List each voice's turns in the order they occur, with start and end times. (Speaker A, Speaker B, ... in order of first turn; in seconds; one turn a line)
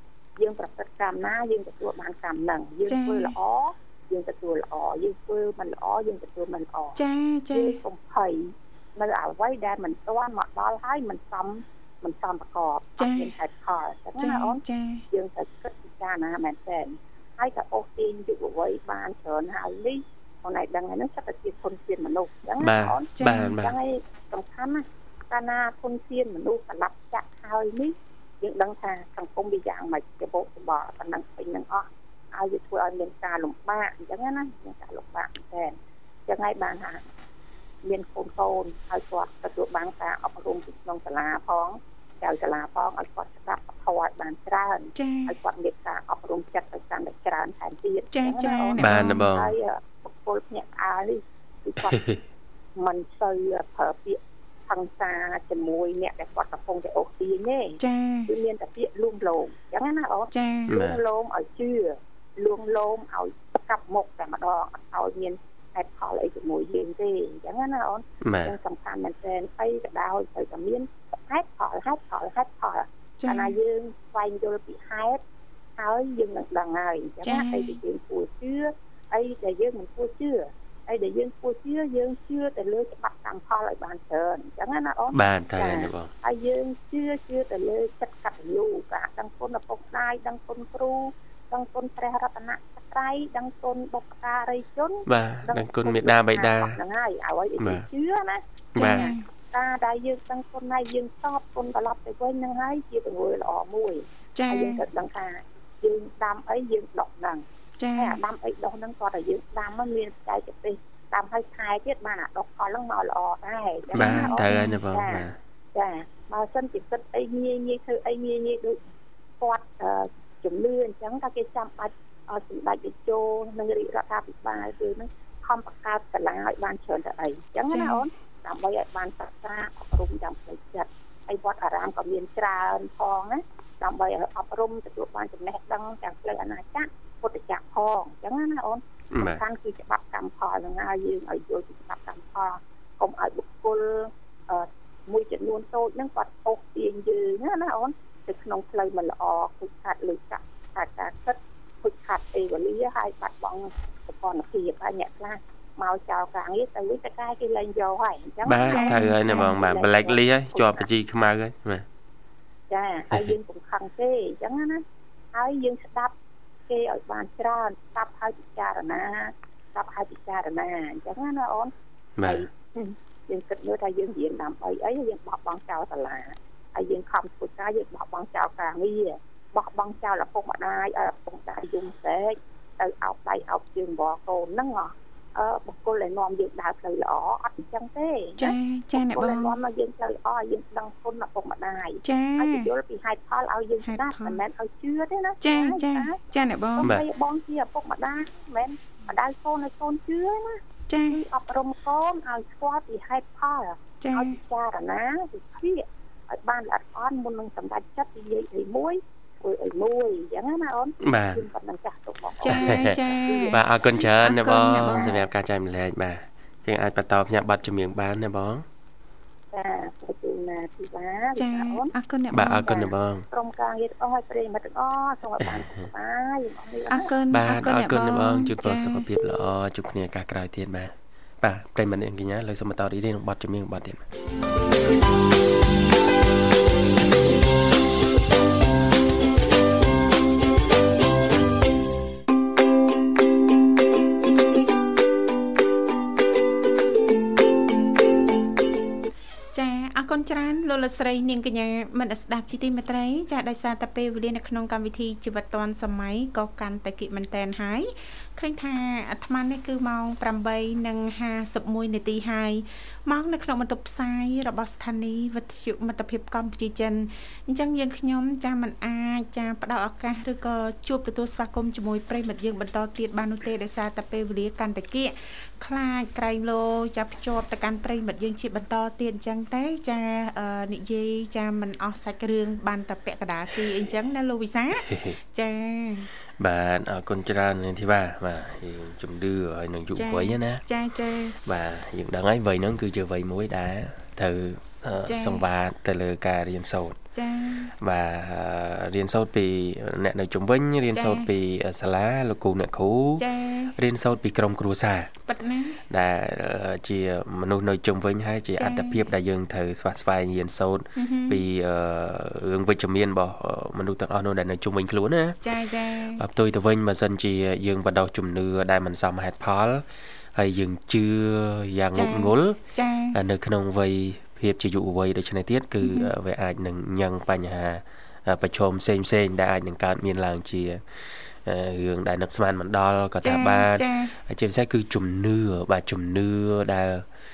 Speaker A: 0.4-35.8
Speaker B: 2.9-3.3
Speaker B: 7.0-7.8
Speaker B: 13.0-13.3
Speaker B: 14.2-15.0
Speaker C: 22.6-23.8
Speaker B: 23.2-23.4
Speaker A: 36.3-37.0
Speaker A: 37.8-52.2
Speaker B: 45.0-45.3
Speaker B: 48.1-49.3
Speaker C: 48.8-49.5
Speaker A: 52.8-75.2
Speaker B: 57.8-58.3
Speaker B: 60.3-60.7
Speaker C: 60.7-61.0
Speaker C: 68.2-68.5
Speaker B: 73.2-73.5
Speaker A: 75.8-118.8
Speaker B: 77.2-77.8
Speaker C: 85.1-86.1
Speaker C: 95.1-96.8
Speaker C: 97.6-97.8
Speaker B: 98.7-99.2
Speaker C: 98.8-99.1
Speaker B: 104.3-104.8
Speaker B: 107.8-108.2
Speaker B: 113.9-114.8
Speaker C: 113.9-115.4
Speaker A: 119.4-160.9
Speaker B: 127.7-128.0
Speaker C: 139.1-139.4
Speaker C: 158.4-161.8
Speaker B: 158.7-159.5
Speaker A: 162.7-166.1
Speaker A: 166.7-214.0
Speaker C: 172.2-172.4
Speaker B: 188.4-189.6
Speaker B: 192.0-192.7
Speaker B: 193.8-194.4
Speaker B: 195.4-196.9
Speaker B: 200.9-201.2
Speaker B: 204.0-204.3
Speaker C: 211.0-211.4
Speaker B: 212.4-213.6
Speaker C: 212.5-218.6
Speaker B: 214.2-215.1
Speaker A: 219.5-221.9
Speaker B: 221.3-222.6
Speaker C: 222.3-223.2
Speaker A: 222.6-227.1
Speaker C: 225.4-225.8
Speaker B: 226.9-229.0
Speaker C: 227.3-234.0
Speaker B: 249.5-286.1
Speaker C: 284.8-285.2
Speaker C: 286.4-290.6
Speaker B: 289.9-291.4
Speaker C: 291.4-297.0
Speaker B: 295.1-295.4
Speaker B: 297.1-297.7
Speaker C: 297.8-305.1
Speaker B: 300.9-301.3
Speaker B: 303.2-303.7
Speaker B: 305.3-305.8
Speaker C: 305.9-315.4
Speaker B: 308.6-309.1
Speaker B: 310.9-311.4
Speaker B: 315.4-316.2
Speaker C: 316.2-322.6
Speaker B: 321.9-323.2
Speaker C: 323.1-337.1
Speaker B: 325.8-326.1
Speaker B: 333.2-334.1